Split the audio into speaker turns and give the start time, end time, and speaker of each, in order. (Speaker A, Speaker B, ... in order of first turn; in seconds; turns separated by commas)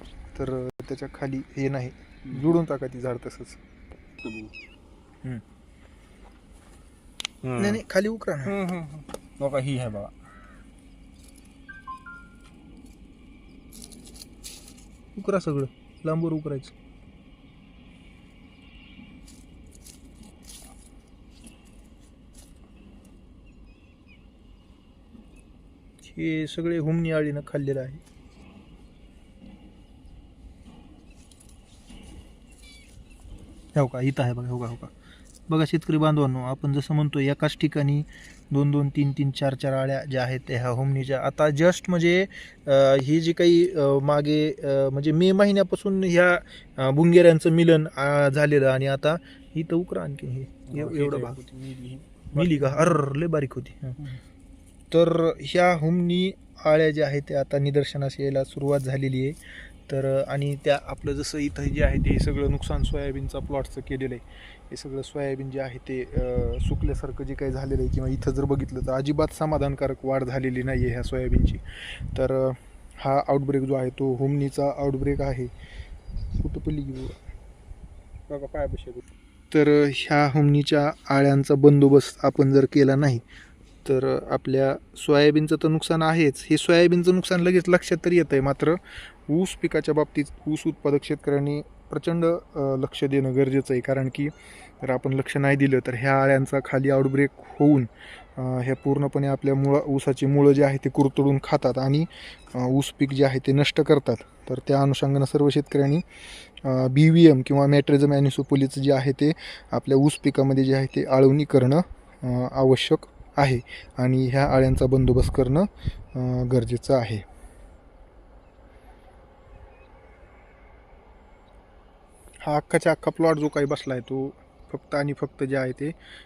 Speaker A: 0.3-3.6, Speaker B: 4.2-4.5, Speaker B: 7.4-7.8, Speaker A: 7.6-8.6, Speaker B: 8.4-10.1, Speaker A: 15.1-16.7, Speaker A: 26.1-28.0, Speaker A: 33.7-34.9, Speaker A: 35.5-51.4, Speaker B: 50.7-53.0, Speaker A: 52.3-54.0, Speaker A: 54.9-71.6, Speaker A: 72.1-75.5, Speaker A: 76.4-77.2, Speaker B: 78.3-79.0, Speaker A: 79.5-83.2, Speaker A: 83.8-106.0, Speaker A: 106.6-117.2, Speaker A: 122.4-125.9